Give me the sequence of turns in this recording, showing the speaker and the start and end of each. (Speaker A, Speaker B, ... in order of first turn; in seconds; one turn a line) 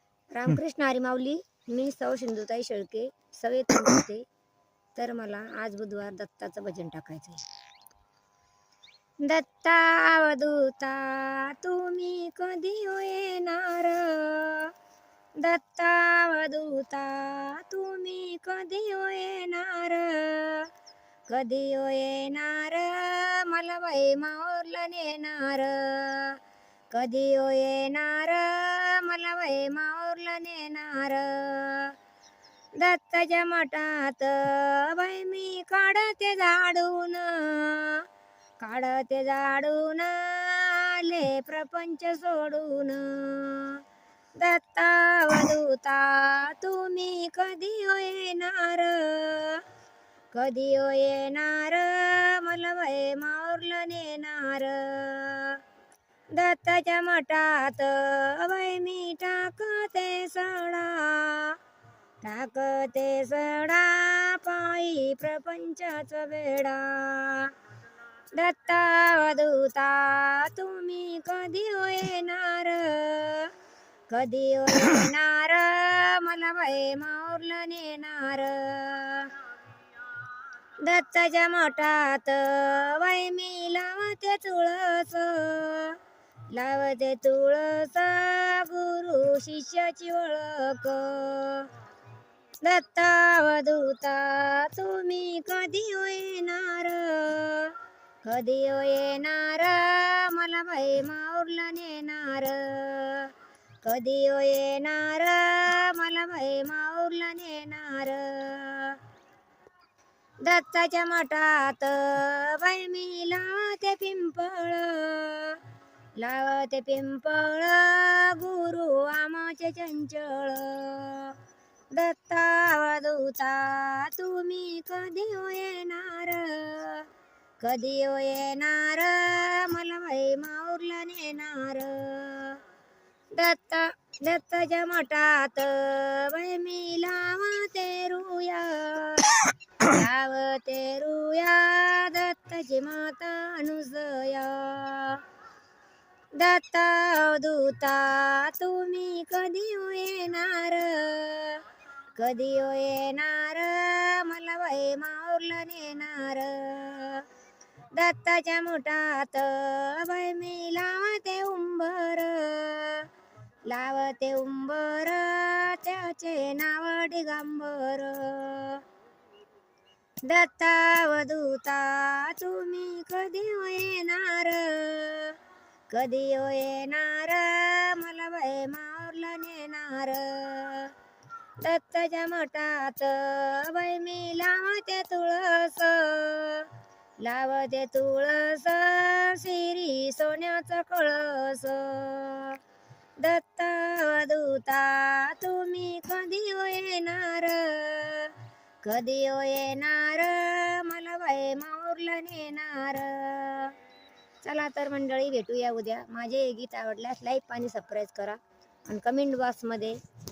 Speaker A: 0.3-4.2
Speaker A: 5.0-7.4
Speaker A: 9.2-14.7
Speaker A: 15.4-20.7
Speaker A: 21.3-26.4
Speaker A: 26.9-31.9
Speaker A: 32.8-38.0
Speaker A: 38.6-43.8
Speaker A: 44.4-49.6
Speaker A: 50.3-55.6
Speaker A: 56.3-61.6
Speaker A: 62.2-67.5
Speaker A: 68.3-73.5
Speaker A: 74.1-79.3
Speaker A: 80.8-86.0
Speaker A: 86.5-91.7
Speaker A: 92.6-103.3
Speaker A: 103.8-109.0
Speaker A: 110.4-115.6
Speaker A: 116.2-121.4
Speaker A: 121.9-127.1
Speaker A: 127.6-132.6
Speaker A: 133.3-145.2
Speaker A: 146.4-151.6
Speaker A: 152.2-157.2
Speaker A: 158.0-163.1
Speaker A: 163.7-168.8
Speaker A: 170.2-175.4
Speaker A: 175.9-180.9
Speaker A: 181.6-186.7
Speaker A: 187.2-192.6
Speaker A: 193.2-203.7
Speaker A: 204.4-210.0